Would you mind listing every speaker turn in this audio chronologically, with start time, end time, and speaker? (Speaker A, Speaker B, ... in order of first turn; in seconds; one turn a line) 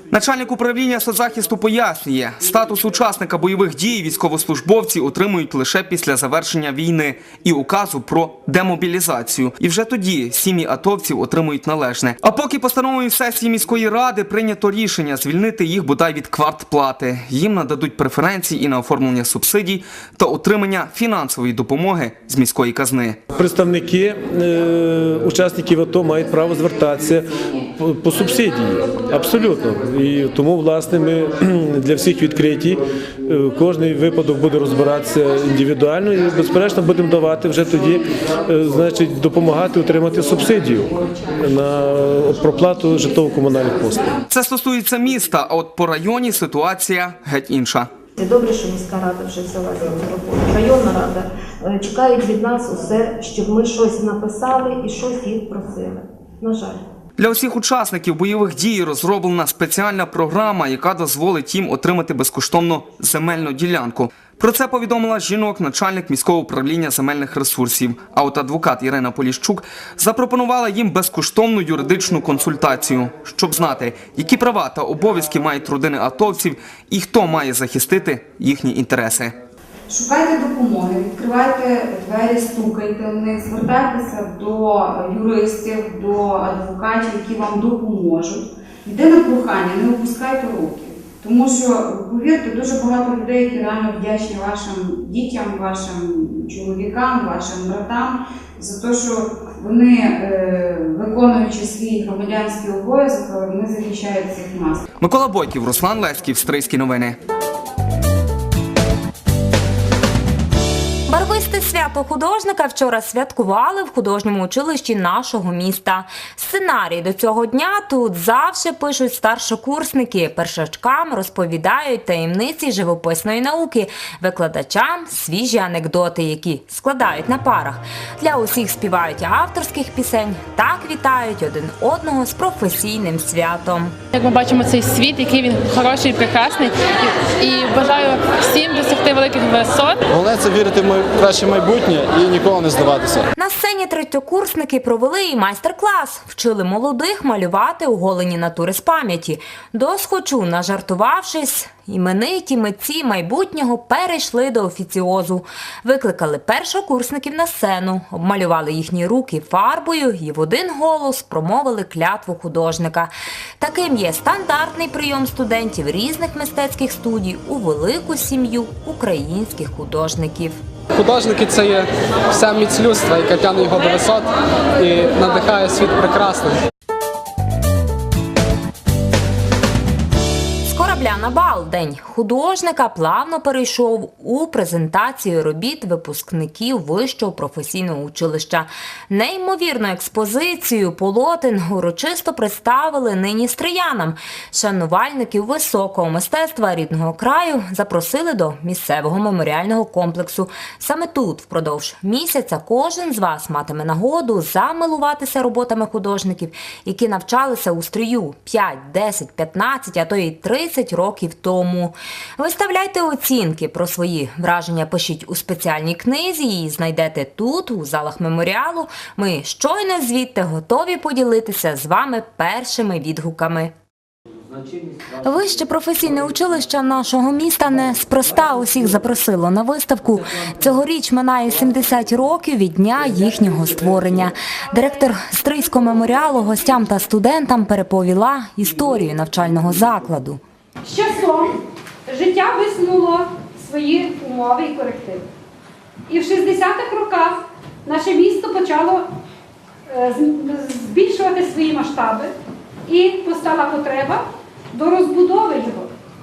Speaker A: 0.1-23.2
Speaker B: 23.4-44.1
Speaker A: 44.3-47.9
Speaker C: 48.2-56.8
Speaker A: 57.2-79.3
Speaker D: 79.9-104.8
Speaker A: 105.0-107.2
Speaker E: 111.1-133.9
Speaker F: 134.2-140.0
Speaker G: 140.2-143.2
Speaker E: 143.3-170.6
Speaker G: 170.9-176.6
Speaker E: 180.6-223.7
Speaker E: 225.2-240.4
Speaker H: 240.9-241.5
Speaker H: 242.1-245.2
Speaker H: 246.1-249.0
Speaker H: 249.9-252.3
Speaker H: 252.9-254.2
Speaker H: 254.7-255.9